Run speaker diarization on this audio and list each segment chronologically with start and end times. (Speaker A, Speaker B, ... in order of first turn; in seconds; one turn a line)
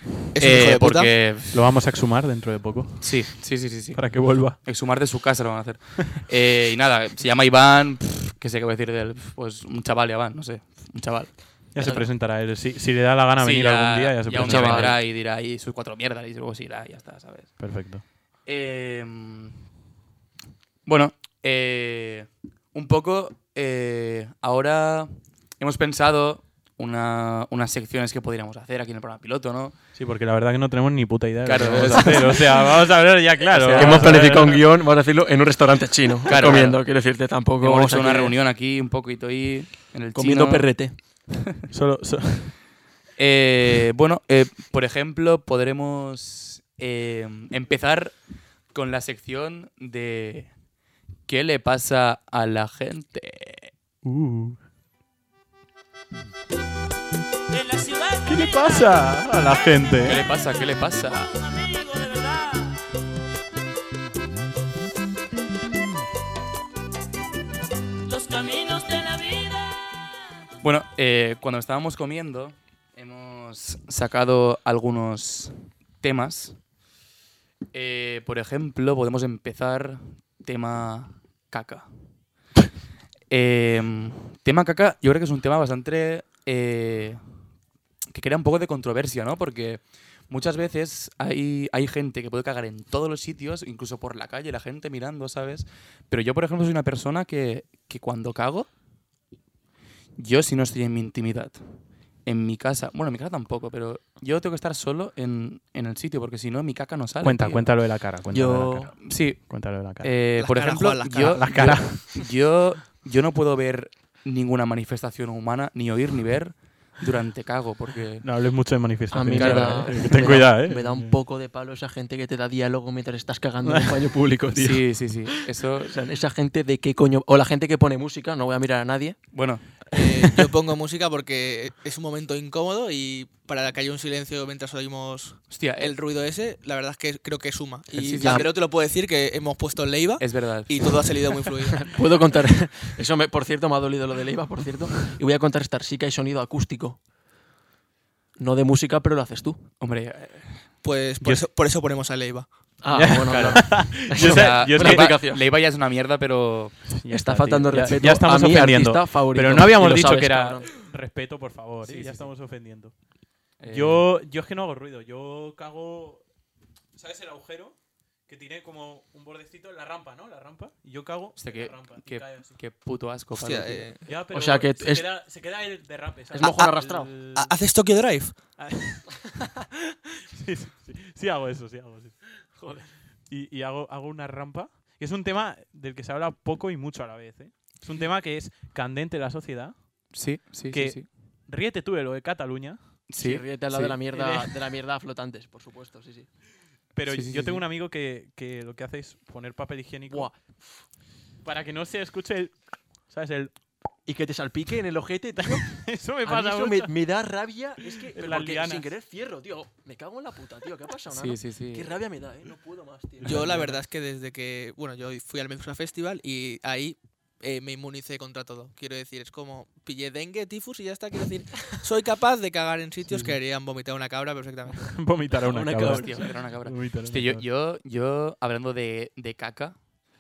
Speaker A: 0.3-1.1
Speaker B: 0.4-1.6
Speaker C: 1.5-4.6
Speaker B: 3.0-12.1
Speaker C: 11.7-15.0
Speaker B: 13.4-17.7
Speaker D: 14.4-15.0
Speaker C: 17.6-18.0
Speaker B: 18.5-19.6
Speaker B: 20.9-29.8
Speaker C: 30.0-34.6
Speaker B: 31.4-32.6
Speaker B: 33.5-34.3
Speaker D: 33.7-38.4
Speaker B: 36.3-36.9
Speaker B: 37.6-40.7
Speaker D: 40.1-41.0
Speaker C: 41.7-42.5
Speaker B: 43.2-48.2
Speaker B: 48.7-50.5
Speaker B: 51.3-53.7
Speaker C: 54.0-54.6
Speaker E: 57.5-62.8
Speaker C: 58.3-60.2
Speaker B: 60.0-61.4
Speaker E: 68.1-70.2
Speaker B: 70.6-76.6
Speaker B: 77.7-81.9
Speaker B: 83.3-87.2
Speaker B: 88.1-98.7
Speaker B: 100.2-101.7
Speaker B: 102.2-107.7
Speaker C: 107.2-110.2
Speaker D: 108.3-108.9
Speaker B: 109.0-118.3
Speaker A: 110.4-111.5
Speaker C: 111.2-112.2
Speaker C: 118.2-121.2
Speaker D: 119.1-129.3
Speaker B: 119.3-120.4
Speaker C: 123.6-124.0
Speaker B: 124.5-126.0
Speaker B: 129.3-129.9
Speaker A: 129.9-142.0
Speaker B: 135.5-135.9
Speaker B: 137.9-138.5
Speaker D: 138.2-138.5
Speaker B: 140.2-141.1
Speaker D: 141.9-147.0
Speaker D: 148.4-149.6
Speaker B: 149.8-150.7
Speaker A: 150.8-152.5
Speaker D: 152.8-155.4
Speaker C: 152.9-155.2
Speaker B: 153.3-156.9
Speaker C: 156.9-162.9
Speaker D: 157.1-160.7
Speaker B: 161.8-162.3
Speaker B: 163.6-164.1
Speaker C: 163.6-166.2
Speaker C: 166.9-167.8
Speaker C: 168.3-172.6
Speaker B: 171.4-173.9
Speaker A: 173.4-174.1
Speaker C: 174.1-177.5
Speaker D: 174.3-175.1
Speaker D: 176.3-177.1
Speaker A: 177.4-178.4
Speaker C: 178.6-179.7
Speaker C: 180.2-190.1
Speaker B: 190.1-191.1
Speaker C: 190.7-192.8
Speaker B: 193.1-194.0
Speaker D: 193.2-196.3
Speaker C: 194.1-194.5
Speaker C: 196.9-200.3
Speaker B: 197.1-197.7
Speaker D: 200.1-200.8
Speaker C: 201.4-203.6
Speaker D: 204.1-213.8
Speaker C: 205.4-206.9
Speaker C: 207.9-208.9
Speaker B: 211.1-211.9
Speaker C: 213.2-213.6
Speaker A: 213.2-224.9
Speaker C: 223.1-223.4
Speaker C: 224.7-227.4
Speaker D: 225.4-226.2
Speaker B: 225.9-229.8